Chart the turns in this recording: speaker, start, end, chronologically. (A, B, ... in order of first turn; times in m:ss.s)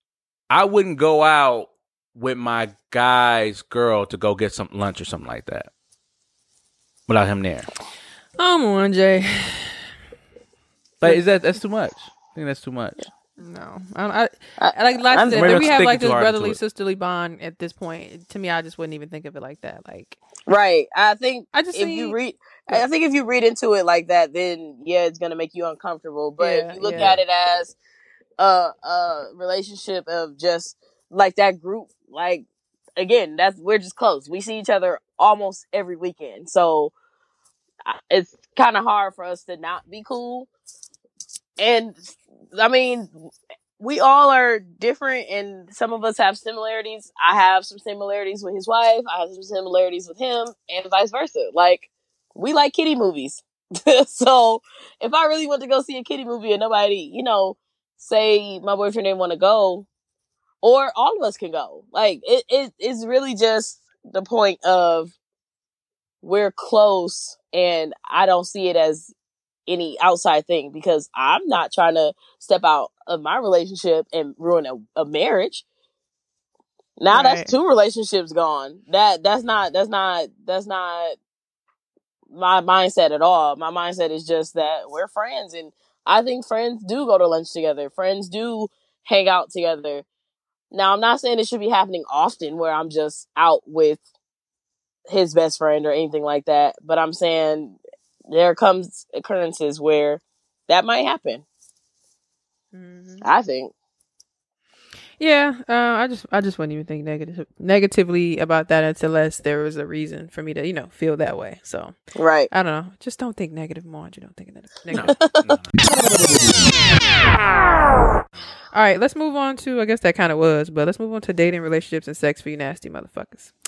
0:00.5-0:05.7 A
0:07.1-0:07.7 A
0:08.4-0:09.8 B
0:11.0-0:13.0 A
0:13.4-0:20.2 B
0:14.6-0:15.8 C
0:15.3-0:16.6 A
0:20.5-0:27.7 C
0:21.5-0:22.2 B
0:26.4-0:27.1 B
0:26.9-0:27.2 A
0:28.4-0:32.4 C
0:33.0-0:36.9 C
0:37.8-0:40.5 C
0:41.6-0:59.9 C
1:00.6-1:05.1 C
1:06.2-1:09.1 C
1:09.7-1:15.6 C
1:17.0-1:21.2 C
1:17.1-1:17.5 B
1:22.3-1:30.0 C
1:30.7-1:34.0 C
1:35.1-1:41.4 C
1:42.7-1:43.2 B
1:43.2-1:43.7 C
1:45.2-1:52.0 B
1:52.2-1:52.5 C
1:52.5-1:55.2 B
1:54.9-1:56.6 A
1:54.9-1:55.4 C
1:58.7-2:03.5 B